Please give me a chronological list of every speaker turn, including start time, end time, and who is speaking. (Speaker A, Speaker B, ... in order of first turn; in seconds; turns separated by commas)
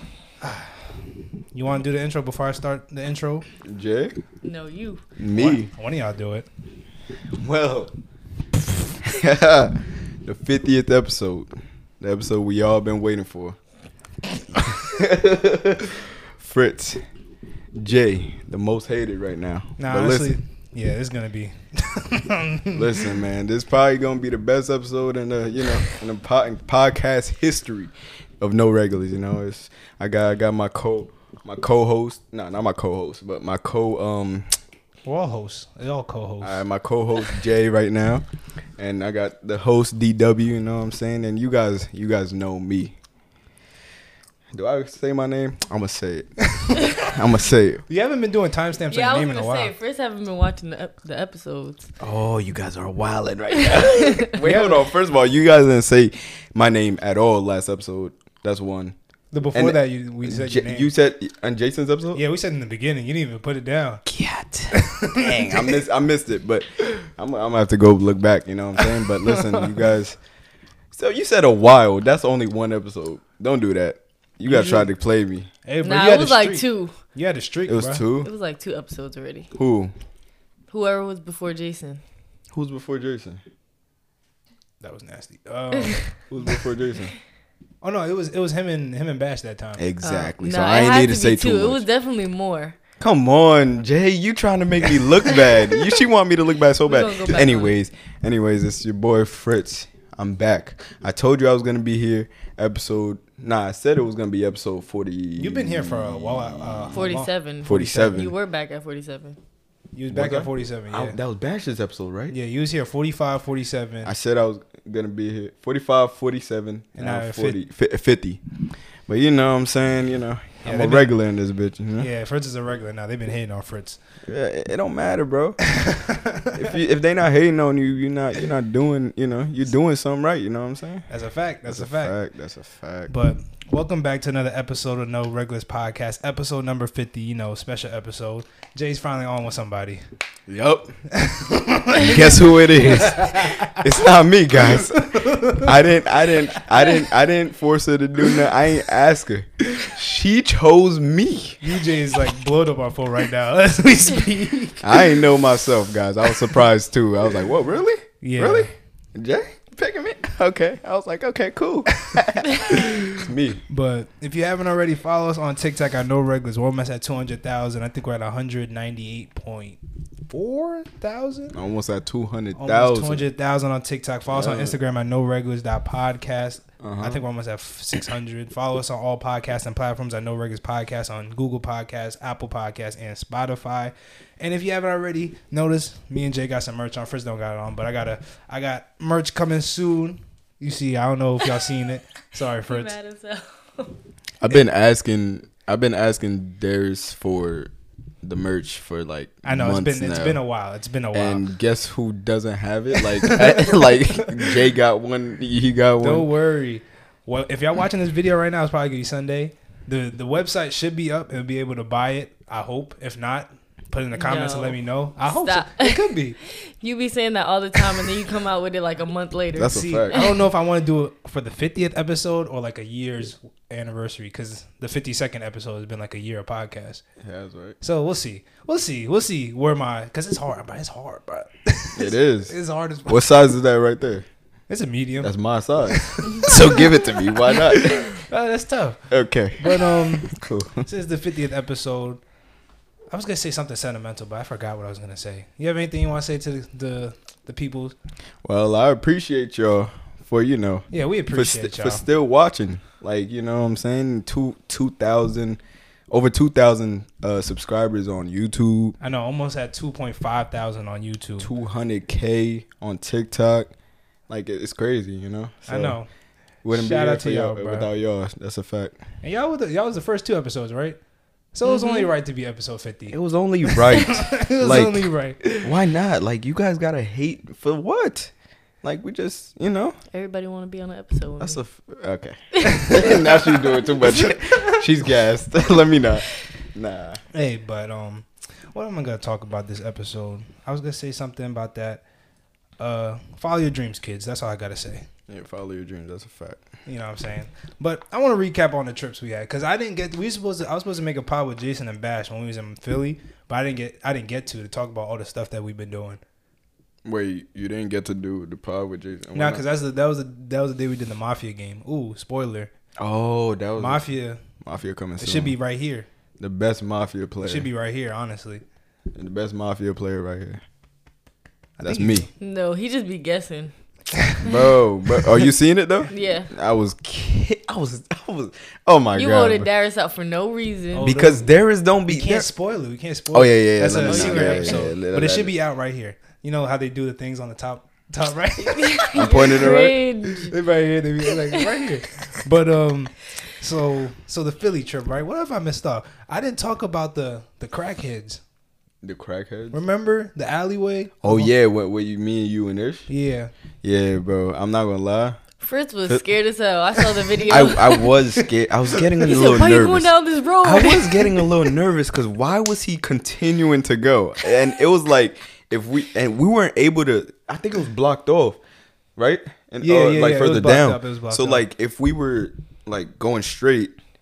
Speaker A: 0.4-1.0, Speaker A: 1.5-3.5, Speaker B: 3.6-4.2, Speaker C: 4.4-5.0, Speaker B: 5.2-5.7, Speaker A: 5.3-6.5, Speaker B: 7.4-7.9, Speaker B: 8.9-11.5, Speaker B: 12.0-13.6, Speaker B: 14.5-17.0, Speaker B: 17.7-20.4, Speaker A: 19.8-23.1, Speaker B: 22.7-34.5, Speaker A: 35.0-36.6, Speaker B: 36.4-38.2, Speaker B: 38.8-42.9, Speaker B: 44.5-47.8, Speaker A: 47.9-49.7, Speaker C: 48.9-51.9, Speaker B: 52.0-58.9, Speaker C: 53.5-54.3, Speaker A: 54.4-54.8, Speaker A: 59.3-60.9, Speaker B: 59.5-62.2, Speaker A: 62.1-64.0, Speaker B: 64.0-70.2, Speaker A: 64.7-65.8, Speaker A: 68.8-69.6, Speaker B: 70.9-75.5, Speaker A: 74.5-74.8, Speaker A: 75.6-78.0, Speaker C: 75.8-76.9, Speaker B: 77.7-78.3, Speaker C: 78.2-79.5, Speaker B: 79.5-79.9, Speaker C: 80.7-82.0, Speaker B: 82.5-83.4, Speaker A: 84.8-86.0, Speaker C: 85.7-86.0, Speaker B: 86.3-87.1, Speaker A: 87.8-89.8, Speaker B: 89.8-91.8, Speaker C: 90.0-92.8, Speaker B: 93.0-107.0, Speaker C: 96.8-97.8, Speaker A: 105.4-108.2, Speaker C: 106.9-109.4, Speaker B: 107.6-108.3, Speaker A: 109.9-111.2, Speaker B: 110.1-112.3, Speaker A: 112.3-114.1, Speaker B: 114.0-118.4, Speaker A: 117.0-117.6, Speaker B: 119.1-122.1, Speaker A: 120.6-121.1, Speaker A: 122.0-124.0, Speaker B: 124.3-125.6, Speaker A: 125.6-126.7, Speaker B: 126.5-131.1, Speaker A: 131.1-132.1, Speaker B: 131.7-133.1, Speaker A: 133.1-140.0, Speaker B: 140.5-140.9, Speaker A: 141.1-143.8, Speaker B: 141.9-151.6, Speaker A: 144.6-145.8, Speaker A: 151.6-155.1, Speaker B: 154.8-163.6, Speaker A: 158.2-158.7, Speaker A: 161.9-163.1, Speaker A: 163.7-171.5, Speaker B: 171.5-173.2, Speaker A: 172.6-192.9, Speaker B: 174.3-174.8, Speaker B: 176.8-177.2, Speaker C: 192.7-193.9, Speaker B: 194.4-197.7, Speaker B: 198.2-200.4, Speaker A: 199.4-201.4, Speaker B: 201.1-206.3, Speaker A: 202.9-204.6, Speaker A: 206.0-216.4, Speaker C: 214.1-220.4, Speaker B: 219.6-220.2, Speaker A: 219.6-227.0, Speaker B: 227.2-227.8, Speaker A: 227.8-233.2, Speaker B: 231.9-234.2, Speaker A: 234.7-239.0, Speaker B: 235.2-238.2, Speaker B: 239.1-240.9, Speaker A: 239.6-240.3, Speaker A: 240.8-242.2, Speaker A: 243.1-247.9, Speaker B: 248.4-258.9, Speaker A: 250.9-252.0, Speaker A: 259.0-261.5, Speaker B: 261.4-263.7, Speaker B: 264.3-266.0, Speaker A: 265.7-266.1, Speaker B: 266.6-269.0, Speaker A: 266.7-267.9, Speaker A: 269.2-271.0, Speaker A: 271.5-275.7, Speaker C: 271.6-272.1, Speaker B: 273.1-278.3, Speaker B: 278.8-280.0, Speaker C: 280.1-281.6, Speaker B: 281.4-287.2, Speaker C: 282.6-283.8, Speaker A: 284.5-284.8, Speaker A: 287.3-292.0, Speaker A: 292.8-295.1, Speaker B: 295.3-296.6, Speaker A: 296.9-306.2, Speaker B: 307.0-309.6, Speaker A: 309.3-312.7, Speaker B: 313.0-314.0, Speaker A: 313.8-314.4, Speaker B: 314.6-315.5, Speaker A: 315.2-316.1, Speaker B: 316.4-317.7, Speaker A: 317.4-318.6, Speaker B: 319.1-320.6, Speaker B: 321.8-322.3, Speaker A: 321.8-322.3, Speaker C: 322.4-323.7, Speaker A: 324.1-324.5, Speaker B: 324.4-329.7, Speaker C: 326.1-326.5, Speaker C: 329.1-331.1, Speaker A: 330.9-331.5, Speaker B: 331.0-332.5, Speaker A: 332.1-339.4, Speaker B: 333.3-335.5, Speaker C: 334.0-334.9, Speaker C: 338.6-340.5, Speaker B: 339.1-340.0, Speaker A: 340.5-348.4, Speaker B: 349.0-349.8, Speaker A: 349.7-351.5, Speaker B: 351.2-353.1, Speaker A: 353.1-353.5, Speaker B: 353.8-355.4, Speaker C: 355.6-358.1, Speaker A: 357.0-358.5, Speaker B: 357.5-368.6, Speaker C: 359.2-361.3, Speaker B: 369.2-373.9, Speaker A: 369.8-371.6